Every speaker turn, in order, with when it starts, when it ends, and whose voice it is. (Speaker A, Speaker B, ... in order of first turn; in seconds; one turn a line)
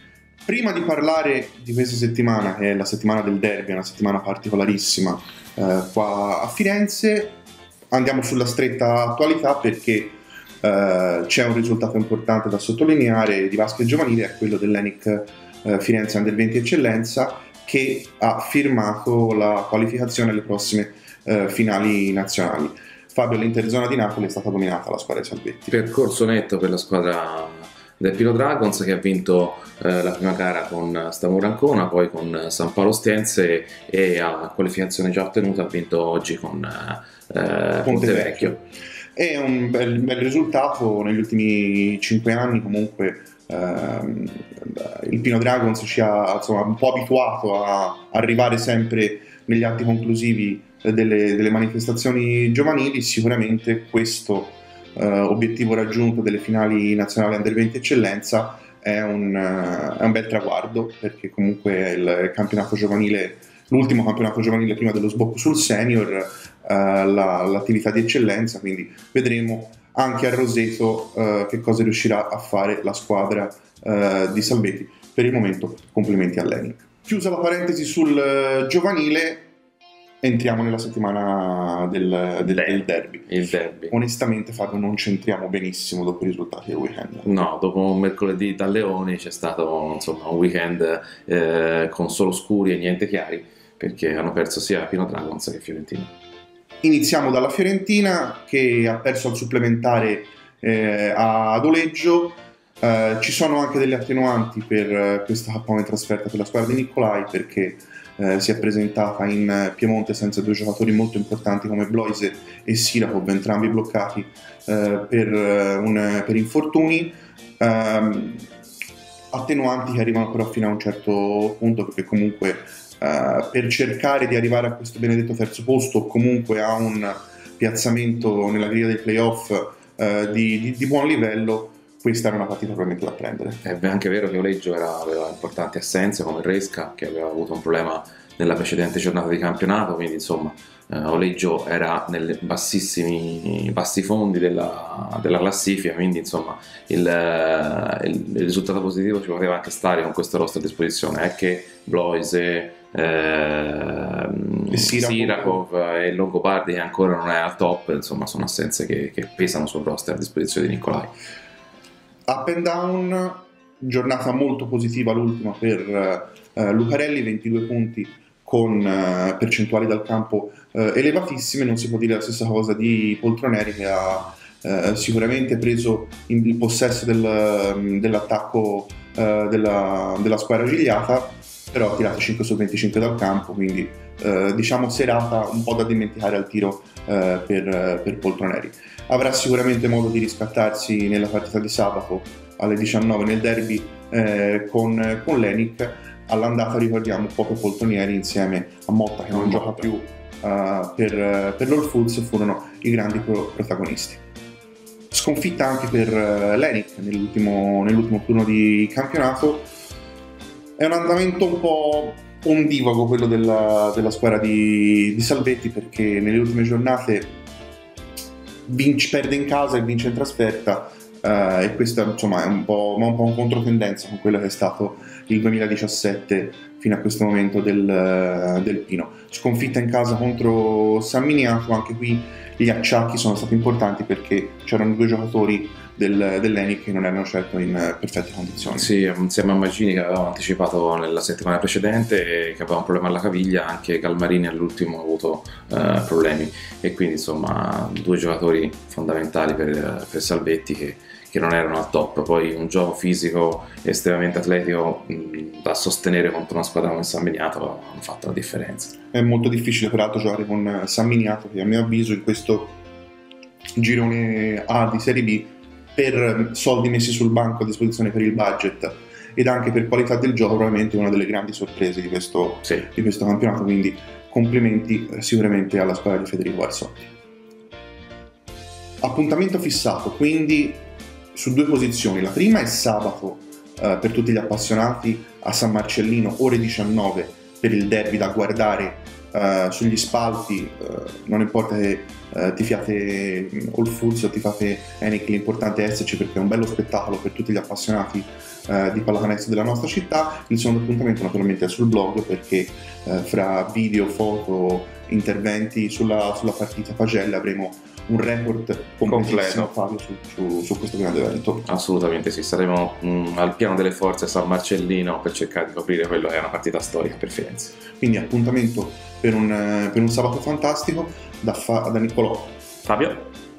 Speaker A: 0.5-7.4
Speaker A: 7.9-25.8
Speaker B: 25.7-38.6
Speaker A: 37.9-38.6
Speaker A: 39.2-79.5
Speaker A: 80.2-87.3
Speaker B: 82.4-84.0
Speaker B: 87.2-96.1
Speaker A: 96.8-118.5
Speaker A: 119.3-133.6
Speaker B: 133.6-161.1
Speaker A: 154.7-155.6
Speaker A: 162.3-204.2
Speaker B: 199.3-199.9
Speaker A: 205.1-209.7
Speaker A: 210.8-217.3
Speaker A: 218.7-238.9
Speaker B: 238.7-258.9
Speaker A: 259.1-262.8
Speaker A: 263.8-277.1
Speaker A: 279.0-311.7
Speaker B: 309.0-309.7
Speaker B: 311.7-317.7
Speaker A: 318.0-322.6
Speaker B: 322.9-323.3